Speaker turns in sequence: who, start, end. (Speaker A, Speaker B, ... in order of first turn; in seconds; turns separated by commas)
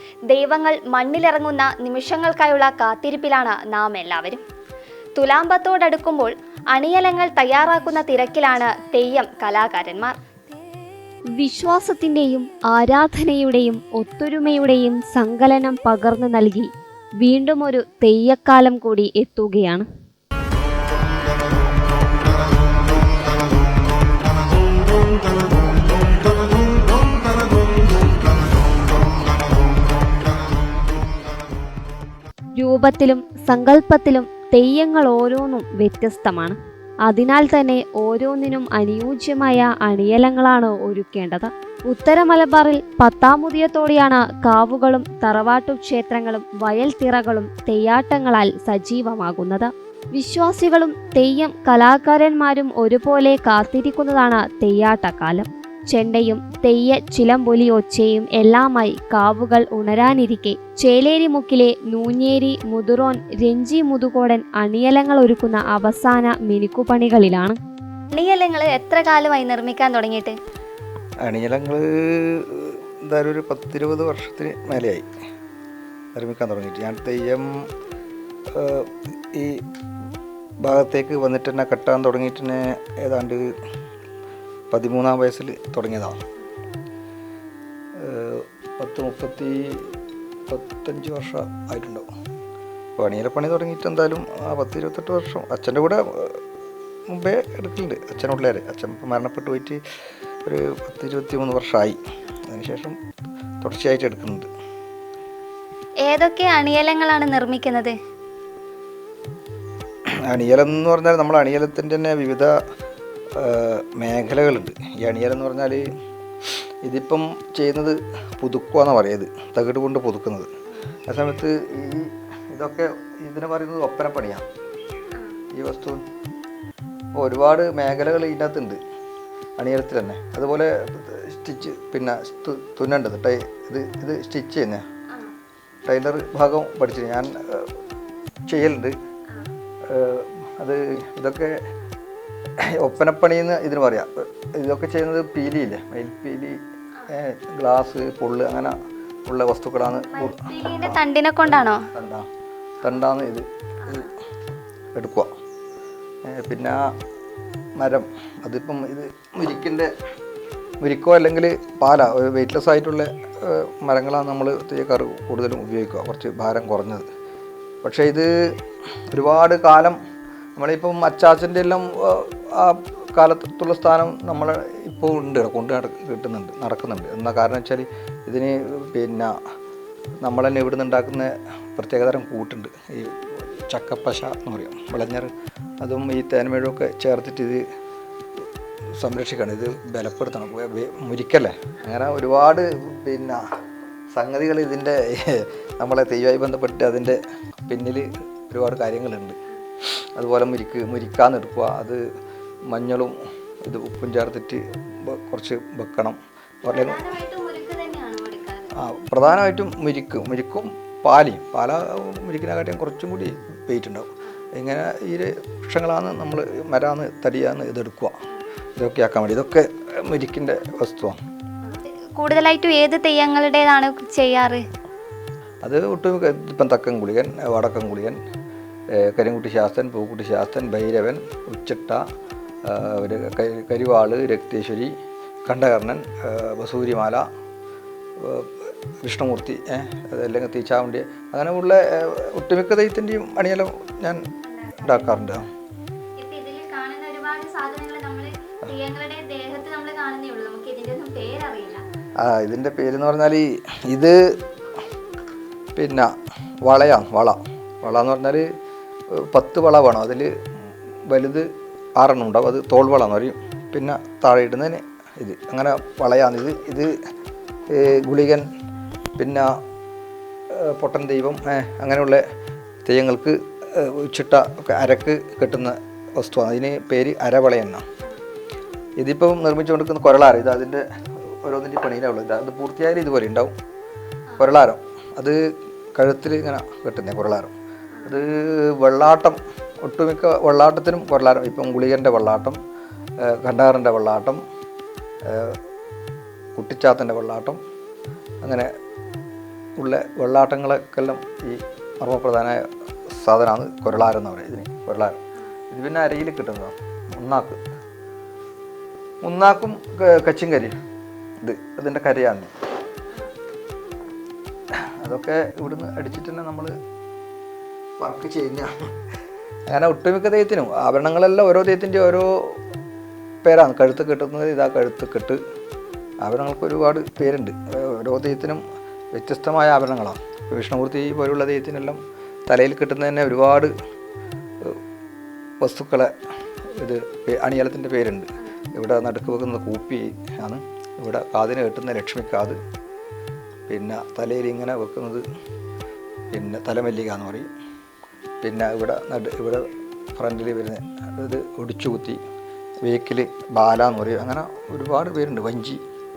Speaker A: 0.3-4.4, Speaker A: 5.2-10.2, Speaker B: 11.4-19.9, Speaker B: 32.6-67.6, Speaker A: 68.2-70.4, Speaker C: 71.2-75.1, Speaker C: 76.1-77.5, Speaker C: 78.5-79.6, Speaker C: 80.6-83.5, Speaker C: 84.7-86.2, Speaker C: 88.0-89.9, Speaker C: 90.5-92.1, Speaker C: 93.0-96.4, Speaker C: 97.1-99.8, Speaker C: 100.5-103.0, Speaker C: 103.6-104.5, Speaker A: 106.1-108.0, Speaker C: 110.3-112.5, Speaker C: 113.3-115.8, Speaker C: 116.8-120.5, Speaker C: 121.1-124.5, Speaker C: 125.6-126.0, Speaker C: 127.1-128.8, Speaker C: 129.6-134.8, Speaker C: 135.9-137.7, Speaker C: 138.5-138.9, Speaker C: 139.9-141.6, Speaker C: 142.6-148.8, Speaker C: 149.3-152.3, Speaker A: 150.1-151.8, Speaker C: 152.8-154.1, Speaker A: 153.8-154.1, Speaker C: 154.9-155.3, Speaker C: 156.2-156.8, Speaker C: 157.8-159.9, Speaker C: 160.8-167.1, Speaker C: 167.8-168.3, Speaker C: 169.1-170.0, Speaker C: 170.6-179.3, Speaker C: 180.2-187.6, Speaker C: 189.0-193.4, Speaker C: 194.1-199.4, Speaker C: 200.2-202.0, Speaker C: 202.7-207.1, Speaker A: 206.7-208.7, Speaker C: 208.8-218.2, Speaker C: 218.8-221.2, Speaker A: 221.7-224.6, Speaker C: 225.6-228.2, Speaker C: 228.9-232.0, Speaker C: 232.7-234.9, Speaker C: 235.5-237.3, Speaker C: 238.2-238.5, Speaker C: 239.0-244.2, Speaker A: 244.5-245.4, Speaker C: 244.8-245.5, Speaker A: 246.2-251.8, Speaker C: 252.2-254.3, Speaker C: 255.8-256.1, Speaker C: 256.6-258.5, Speaker C: 259.1-260.3, Speaker C: 261.1-266.9, Speaker C: 267.7-268.5, Speaker C: 269.2-269.6, Speaker C: 270.5-272.2, Speaker C: 272.9-277.9, Speaker C: 279.0-280.9, Speaker C: 281.4-283.5, Speaker C: 284.4-285.4, Speaker C: 286.0-287.5, Speaker C: 288.1-292.6, Speaker C: 293.2-294.4, Speaker C: 295.2-295.6, Speaker C: 296.6-297.6, Speaker C: 298.4-298.7, Speaker C: 299.8-305.2, Speaker C: 305.7-307.6, Speaker C: 309.2-310.8, Speaker C: 311.4-312.5, Speaker C: 314.7-316.8, Speaker C: 318.0-318.9, Speaker C: 319.7-322.6, Speaker C: 323.4-325.4, Speaker C: 326.2-328.6, Speaker C: 329.1-333.7, Speaker C: 335.6-336.1, Speaker C: 336.8-342.6, Speaker C: 343.7-345.2, Speaker C: 346.3-347.5, Speaker C: 348.4-352.2, Speaker C: 352.9-355.8